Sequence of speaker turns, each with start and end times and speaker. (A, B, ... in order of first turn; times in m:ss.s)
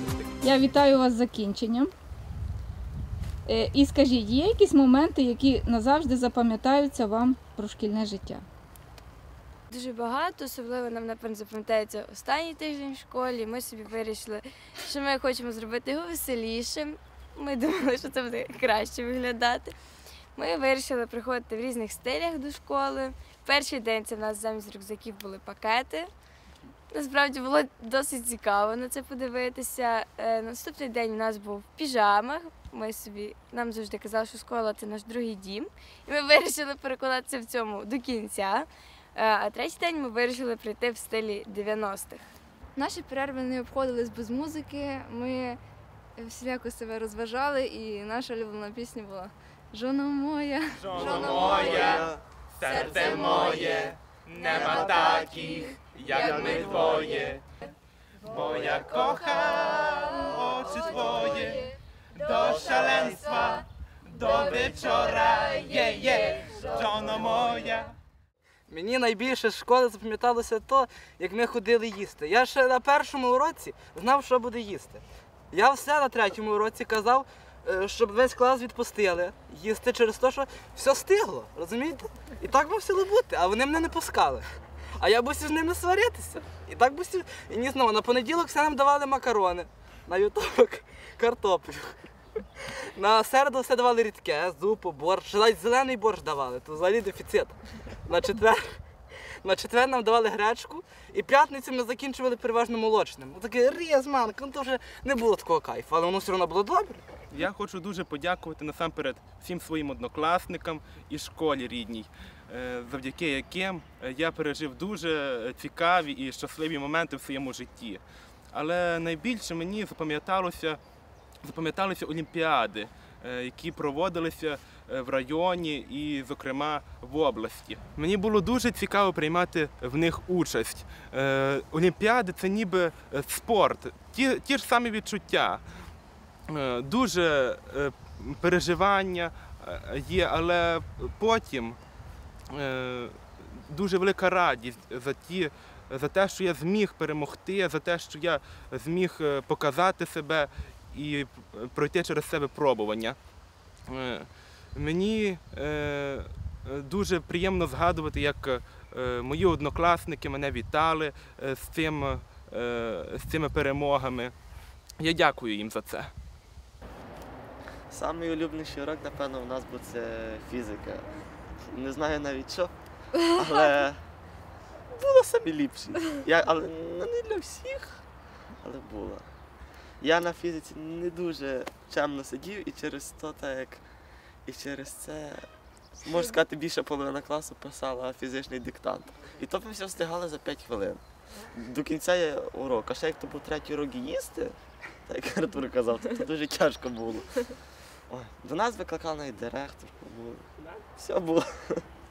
0:00.4-0:01.9 A
0:03.5-0:08.5 A
0:09.7-0:19.8 B
0:20.4-0:26.1 B
0:26.9-0:42.3 B
0:42.8-0:45.6 C
0:46.2-0:53.8 C
0:50.9-0:52.1 D
0:52.6-0:57.4 D
0:54.6-0:55.5 C
0:56.0-0:57.4 C
0:58.3-1:01.6 D
1:00.2-1:00.8 C
1:02.2-1:07.9 D
1:08.7-1:24.5 E
1:25.0-1:32.0 E
1:33.0-1:38.8 E
1:39.4-1:47.0 E
1:47.3-1:58.0 D
1:58.5-2:00.8 D
2:01.4-2:15.6 D
2:16.5-2:21.8 D
2:22.5-2:33.2 D
2:33.9-2:44.3 D
2:45.0-2:46.1 D
2:47.9-2:51.1 F
2:51.7-2:52.7 F
2:53.3-2:54.0 F
2:54.9-2:58.0 F
2:58.6-2:59.3 F
3:00.0-3:03.8 F
3:04.4-3:05.5 F
3:06.0-3:17.6 F
3:18.1-3:21.9 F